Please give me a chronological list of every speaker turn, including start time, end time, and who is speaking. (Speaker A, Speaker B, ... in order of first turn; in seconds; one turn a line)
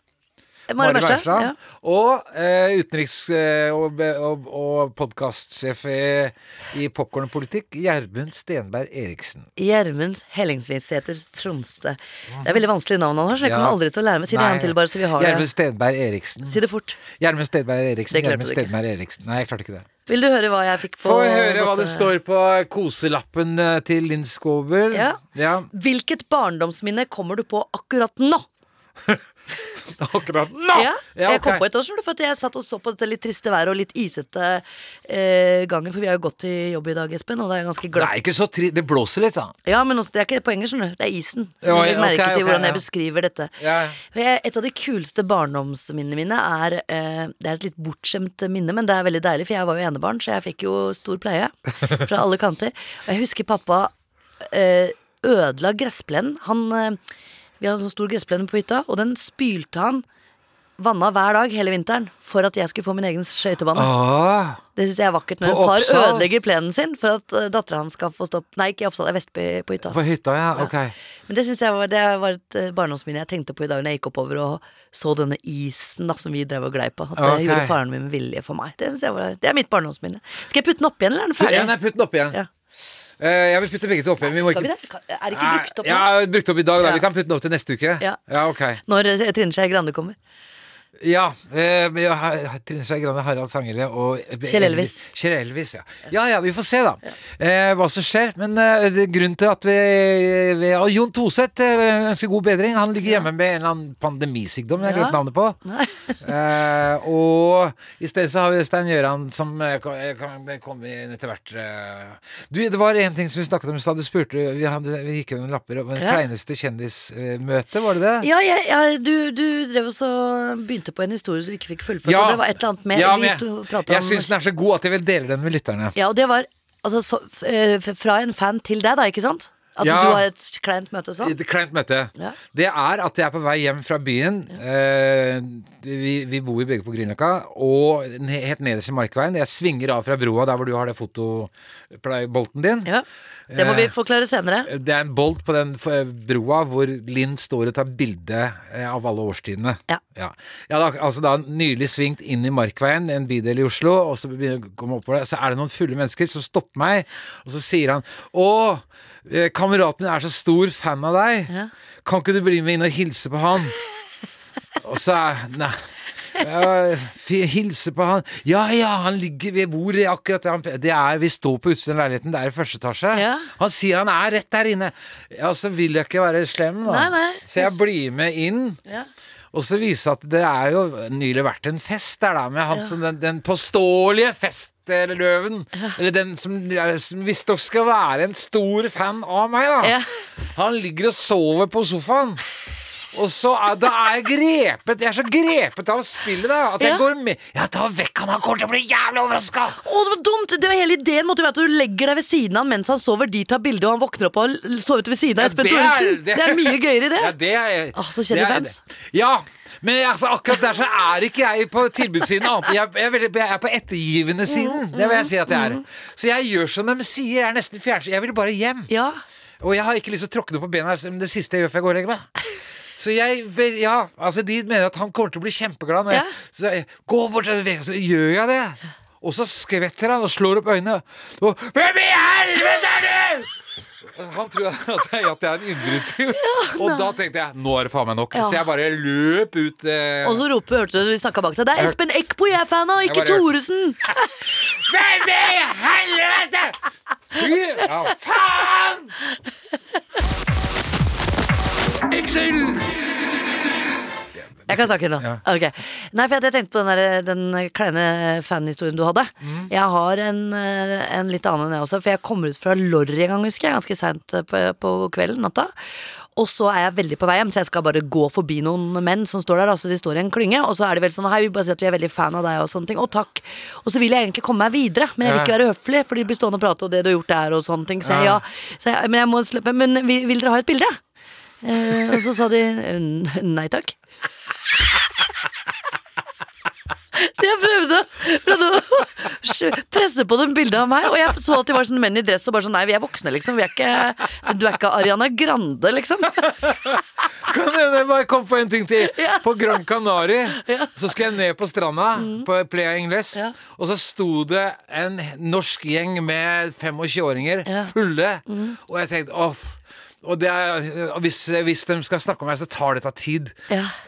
Speaker A: 0.7-1.5
Speaker B: 0.8-9.5
Speaker A: 9.6-15.5
Speaker B: 13.4-13.8
Speaker B: 14.3-16.6
Speaker A: 16.4-17.0
Speaker B: 17.1-19.9
Speaker A: 18.1-18.7
Speaker A: 20.1-22.1
Speaker B: 21.0-25.7
Speaker A: 24.9-28.4
Speaker B: 29.9-31.6
Speaker A: 30.7-38.1
Speaker B: 37.9-39.5
Speaker A: 39.6-53.9
Speaker B: 41.6-42.8
Speaker B: 43.6-44.0
Speaker A: 54.4-57.0
Speaker A: 57.6-60.0
Speaker A: 60.8-63.9
Speaker B: 63.7-64.6
Speaker A: 64.8-70.0
Speaker B: 65.4-66.3
Speaker B: 69.9-70.9
Speaker A: 71.3-81.7
Speaker B: 77.2-77.7
Speaker B: 81.4-82.4
Speaker B: 83.2-84.7
Speaker A: 84.2-86.1
Speaker B: 85.3-88.8
Speaker A: 86.8-87.0
Speaker A: 88.8-90.2
Speaker B: 91.0-105.6
Speaker A: 94.5-95.1
Speaker A: 104.8-106.2
Speaker B: 106.2-118.3
Speaker A: 118.2-124.3
Speaker B: 122.0-126.0
Speaker A: 126.0-131.3
Speaker B: 129.8-130.2
Speaker B: 131.2-142.9
Speaker A: 142.8-144.7
Speaker B: 143.5-143.9
Speaker B: 144.7-161.5
Speaker B: 162.0-163.8
Speaker B: 164.8-178.8
Speaker A: 173.1-173.5
Speaker A: 176.8-177.8
Speaker B: 179.5-192.4
Speaker A: 189.8-190.1
Speaker B: 193.1-199.8
Speaker A: 196.8-197.0
Speaker A: 199.7-207.3
Speaker B: 205.4-218.9
Speaker A: 207.9-208.8
Speaker A: 214.5-215.8
Speaker A: 218.9-219.2
Speaker B: 219.6-222.3
Speaker B: 222.9-233.5
Speaker A: 226.1-226.3
Speaker B: 234.1-240.4
Speaker A: 236.3-237.1
Speaker A: 238.3-238.6
Speaker A: 240.2-244.0
Speaker B: 243.0-243.5
Speaker B: 244.5-246.8
Speaker B: 247.3-249.1
Speaker A: 254.7-265.7
Speaker B: 259.4-259.7
Speaker A: 266.3-281.0
Speaker B: 275.2-275.5
Speaker B: 278.0-278.4
Speaker A: 281.6-283.9
Speaker A: 287.1-296.5
Speaker B: 297.4-313.5
Speaker A: 299.1-299.4
Speaker A: 300.5-300.9
Speaker A: 302.1-302.5
Speaker A: 307.7-307.9
Speaker A: 308.5-308.8